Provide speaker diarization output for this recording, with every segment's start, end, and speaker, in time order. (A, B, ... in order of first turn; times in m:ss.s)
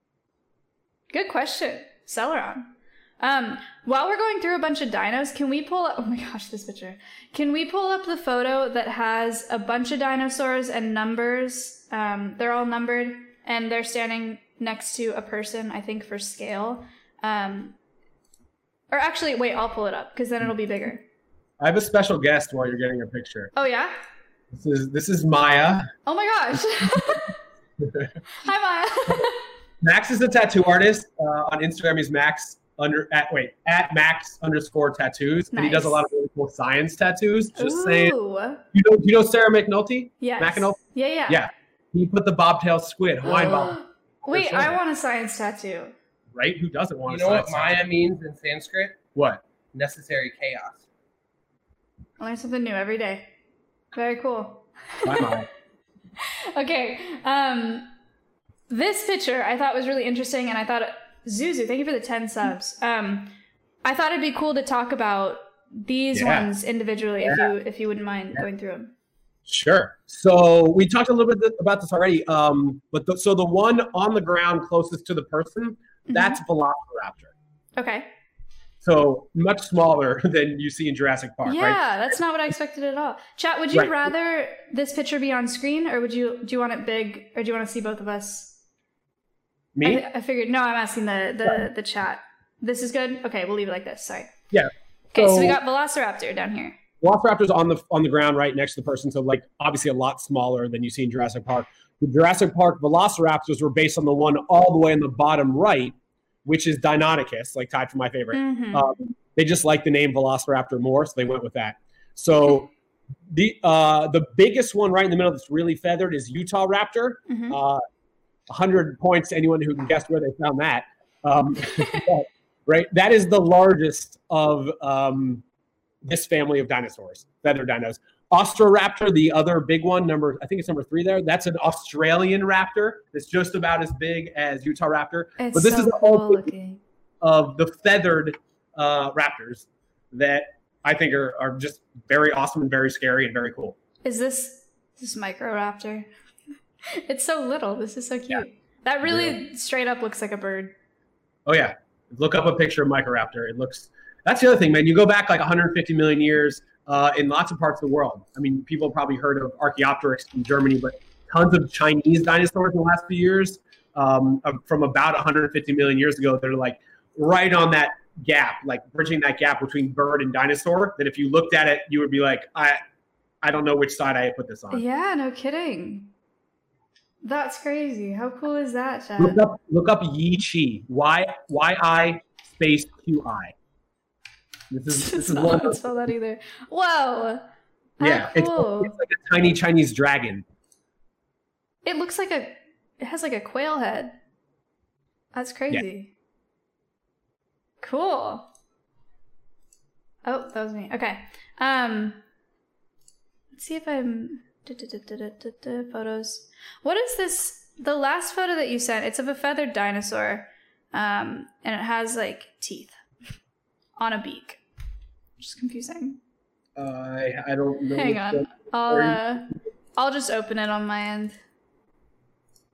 0:01.1-0:17.8 A
0:18.9-0:21.0 A
0:21.6-0:23.5 B
0:23.6-0:24.0 A
0:24.5-0:25.9 B
0:26.1-0:27.4 A
0:27.8-0:28.1 B
0:28.4-0:29.4 A
0:29.8-0:38.2 B
0:35.5-0:36.0 A
0:37.6-0:38.6 A
0:38.7-0:43.8 B
0:40.2-0:41.5 A
0:43.3-0:45.9 A
0:44.3-0:44.7 B
0:46.3-0:47.9 B
0:47.1-0:49.0 C
0:49.2-0:49.4 B
0:49.7-0:50.8 C
0:52.2-0:53.3 A
0:53.9-0:55.4 A
0:55.0-0:55.5 B
0:56.2-0:57.9 A
0:58.7-1:03.3 A
1:03.8-1:08.9 A
1:06.1-1:06.5 B
1:09.5-1:17.3 B
1:16.1-1:16.4 A
1:17.8-1:18.1 A
1:18.8-1:22.1 B
1:21.4-1:28.6 A
1:29.8-1:30.1 B
1:29.8-1:34.3 A
1:34.5-1:35.6 B
1:35.1-1:36.8 A
1:37.0-1:52.7 B
1:48.3-1:48.9 A
1:53.3-1:57.8 B
1:57.3-1:57.6 A
1:58.5-2:05.4 B
2:01.8-2:02.0 A
2:06.0-2:16.5 B
2:15.4-2:16.8 A
2:17.2-2:23.8 B
2:24.0-2:26.1 A
2:26.9-2:30.7 A
2:29.1-2:29.4 B
2:31.5-2:52.8 B
2:53.4-2:54.8 B
2:54.7-2:56.1 A
2:57.2-2:59.4 A
2:59.2-3:03.5 B
3:04.7-3:05.9 B
3:04.9-3:08.9 A
3:08.0-3:10.4 B
3:11.8-3:14.2 A
3:15.3-3:16.1 A
3:17.8-3:18.5 A
3:20.2-3:22.2 A
3:23.6-3:33.0 A
3:34.0-3:34.6 A
3:35.4-3:36.2 A
3:36.8-3:39.2 B
3:38.0-3:41.4 A